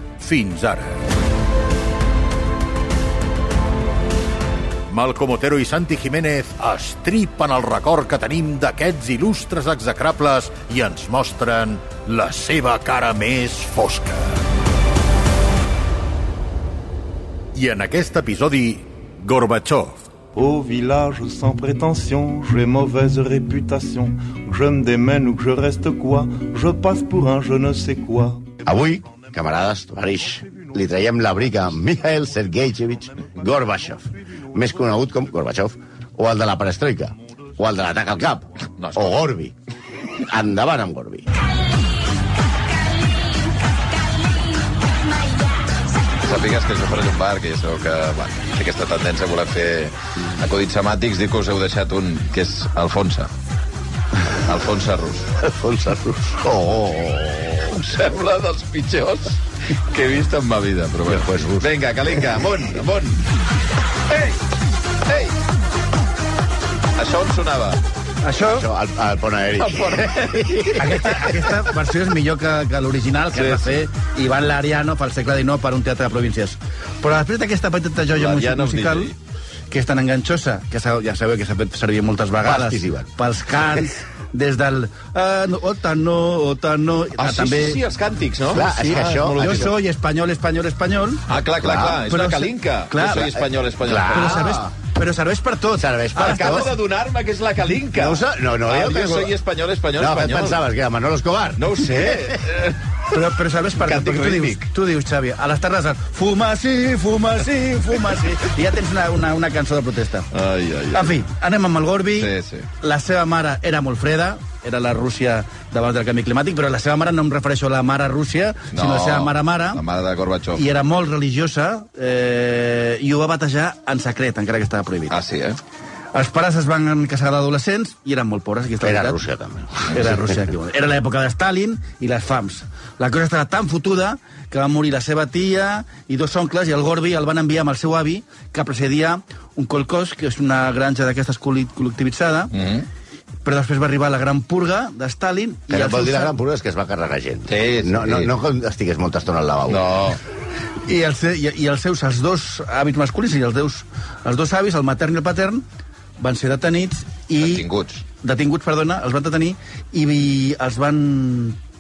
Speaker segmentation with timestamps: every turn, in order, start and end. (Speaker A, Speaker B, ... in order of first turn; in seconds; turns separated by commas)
Speaker A: 0.2-1.1, Speaker A: 4.9-14.4, Speaker A: 17.5-20.0, Speaker B: 20.3-28.5, Speaker C: 28.6-39.5, Speaker D: 38.8-39.2, Speaker C: 40.1-41.3, Speaker D: 46.2-53.3, Speaker D: 54.3-55.3, Speaker C: 55.4-57.8, Speaker D: 57.7-63.2, Speaker C: 61.0-62.2, Speaker D: 64.1-64.4, Speaker D: 65.0-65.3, Speaker D: 66.9-67.8, Speaker E: 68.2-68.7, Speaker C: 68.4-71.3, Speaker D: 69.6-70.8, Speaker E: 70.7-79.1, Speaker D: 73.3-73.8, Speaker D: 78.1-79.1, Speaker E: 79.7-87.8, Speaker C: 82.4-83.1, Speaker D: 87.2-89.7, Speaker C: 88.5-89.7, Speaker E: 88.6-91.2, Speaker D: 91.3-94.5, Speaker C: 91.6-92.0, Speaker E: 92.1-93.4, Speaker C: 93.8-94.7, Speaker E: 94.0-96.7, Speaker C: 95.8-96.7, Speaker D: 96.2-100.6, Speaker C: 98.0-99.3, Speaker C: 100.0-102.4, Speaker D: 101.6-102.8, Speaker E: 103.1-110.3, Speaker D: 103.8-104.6, Speaker D: 110.3-111.1, Speaker E: 110.9-119.8, Speaker D: 112.2-112.7, Speaker D: 118.7-120.6, Speaker E: 120.5-125.2, Speaker D: 125.1-125.6, Speaker E: 126.1-129.2, Speaker C: 128.8-130.2, Speaker E: 129.9-142.5, Speaker D: 142.5-142.9, Speaker E: 143.4-146.3, Speaker C: 145.7-149.9, Speaker D: 147.5-148.3, Speaker D: 149.7-150.2, Speaker E: 150.8-155.6, Speaker E: 156.2-157.7, Speaker D: 157.4-158.0, Speaker E: 158.2-161.6